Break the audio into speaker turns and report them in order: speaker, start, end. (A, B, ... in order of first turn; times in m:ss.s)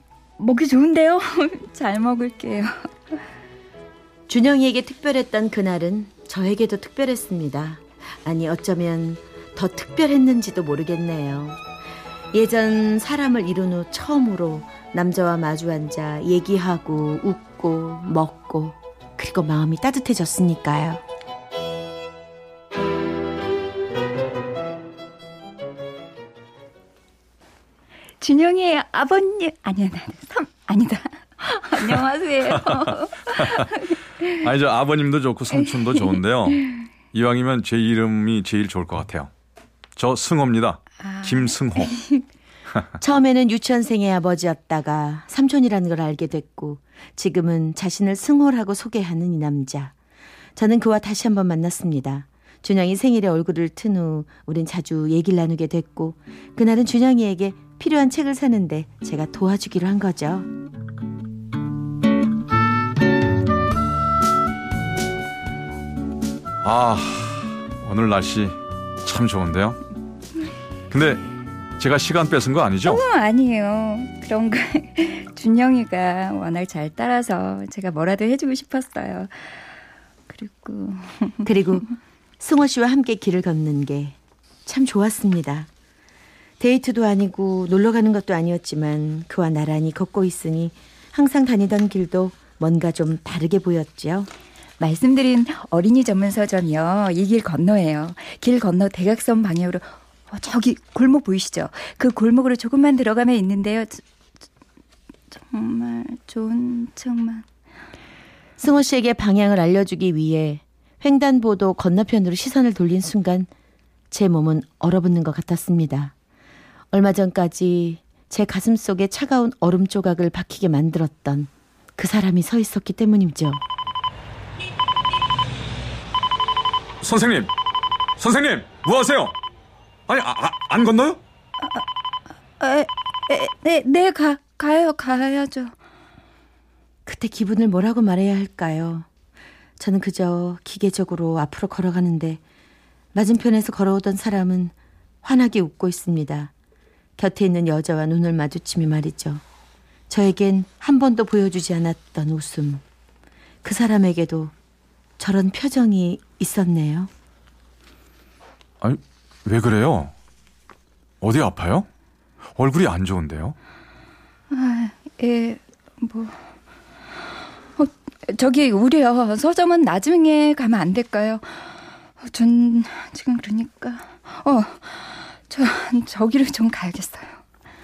0:00.4-0:03.1 A
0:04.3-0:11.6 B
0:12.3-0:21.0 B
0:28.2-0:34.2 A
0:32.5-0:33.7 C
0:34.2-0:39.3 C
0:40.0-0:42.0 C
0:41.0-0:42.2 A
0:43.0-0:49.9 B
0:50.6-1:00.5 B
1:06.6-1:09.8 C
1:10.9-1:11.2 C
1:11.8-1:13.0 C
1:12.8-1:19.5 A
1:20.3-1:21.4 A
1:21.4-1:21.9 B
1:22.4-1:25.7 B
1:26.6-1:34.3 B
1:34.8-1:44.0 A
1:45.3-1:47.4 A
1:48.6-1:53.5 B
1:54.1-1:56.1 B
1:56.9-2:03.6 B
2:07.0-2:07.5 C
2:08.2-2:09.3 C
2:10.1-2:11.2 C
2:12.6-2:15.7 A
2:17.0-2:19.1 B
2:19.8-2:22.4 B
2:23.1-2:26.5 B
2:27.2-2:29.4 B
2:30.1-2:32.8 B
2:33.6-2:34.5 B
2:35.2-2:37.1 B
2:38.8-2:40.1 C
2:41.2-2:41.9 C
2:42.5-2:43.6 C
2:44.5-2:46.4 A
2:47.8-2:57.4 A